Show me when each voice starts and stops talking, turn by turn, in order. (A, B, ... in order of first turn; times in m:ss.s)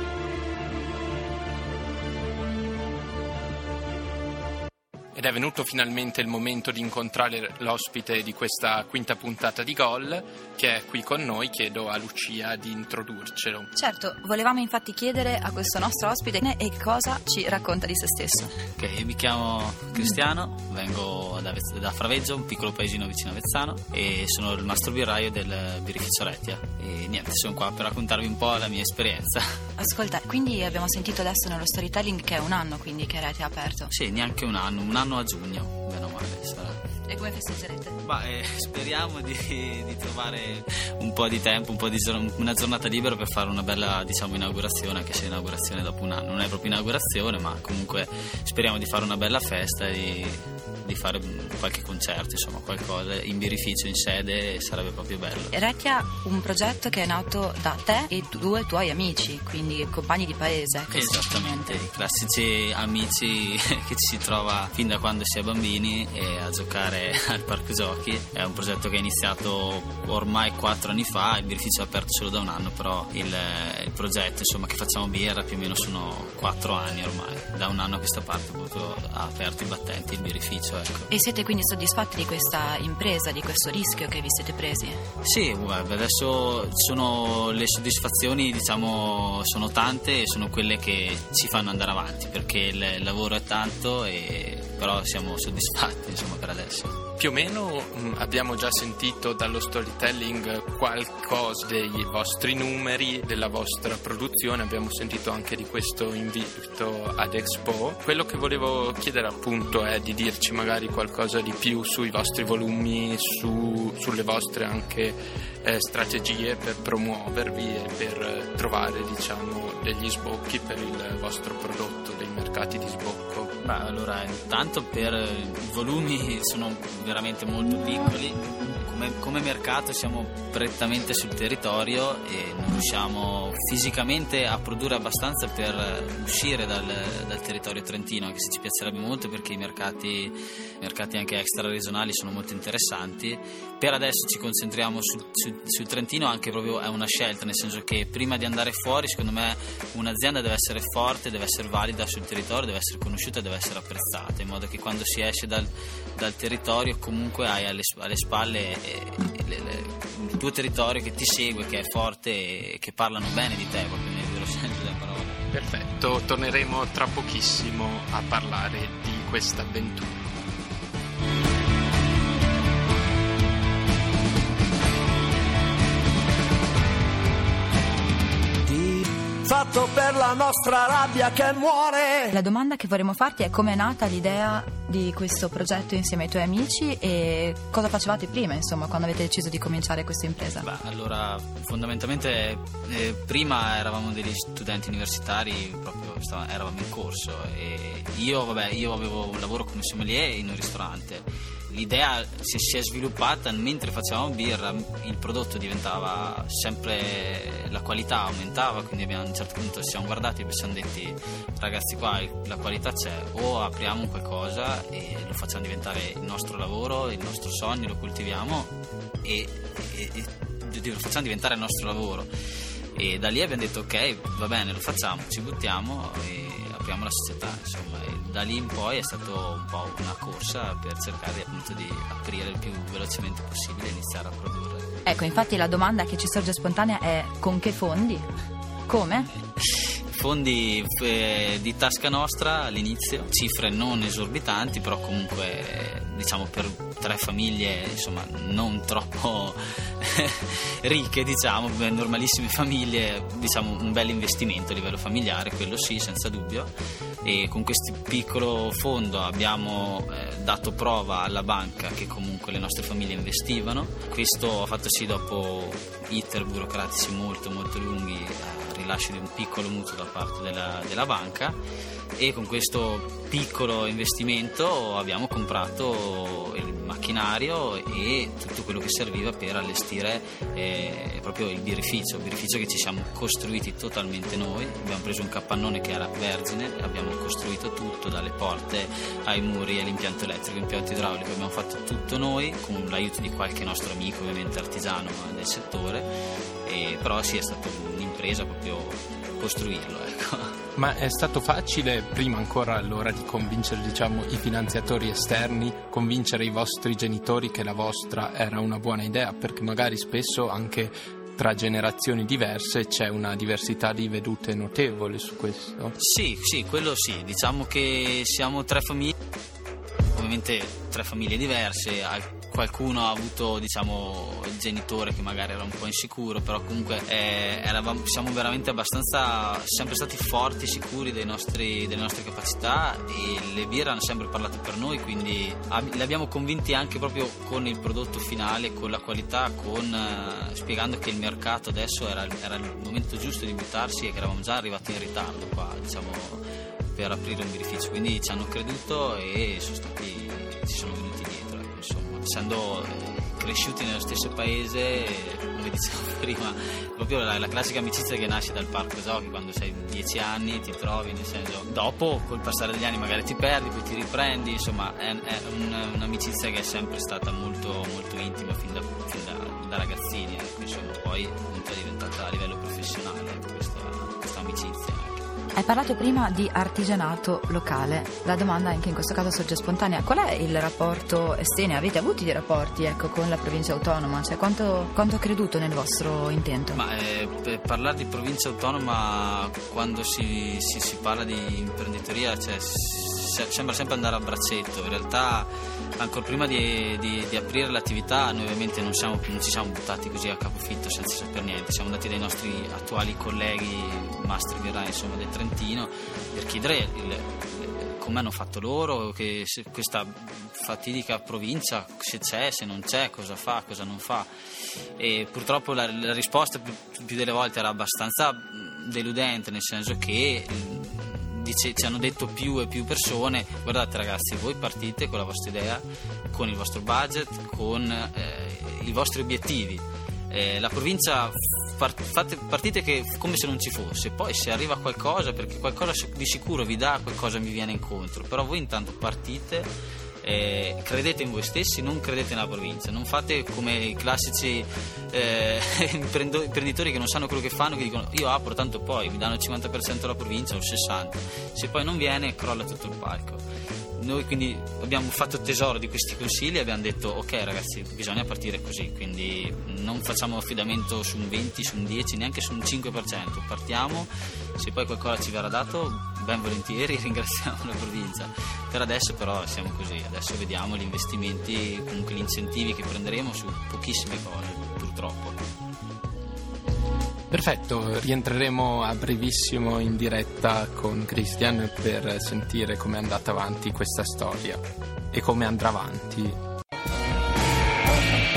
0:05.1-0:13.7 A
0:13.8-0:18.6 B
0:18.8-0:29.6 C
0:29.8-0:33.9 B
0:33.9-0:36.8 C
0:37.0-0:38.0 B
0:38.0-0:55.5 C
0:55.5-1:01.8 B
1:00.9-1:21.1 C
1:21.1-1:25.0 B
1:25.2-1:37.0 C
1:37.2-2:03.5 A
2:03.6-2:45.4 C
2:45.5-2:50.2 A
2:58.7-3:02.3 D
3:02.3-3:10.6 B
3:10.6-3:42.3 C
3:42.9-3:54.9 C
3:55.0-3:58.3 B
3:58.9-3:59.3 B
3:59.7-4:16.7 C
4:17.2-4:31.6 C
4:32.2-4:56.1 C
4:56.6-5:00.6 C
5:00.8-5:16.0 A
5:16.0-5:19.1 C
5:20.1-6:15.2 C
6:15.6-6:26.8 B
6:26.7-6:54.3 C
6:55.0-7:19.7 C
7:20.2-7:33.4 C
7:34.0-7:55.4 C
7:57.3-8:06.4 A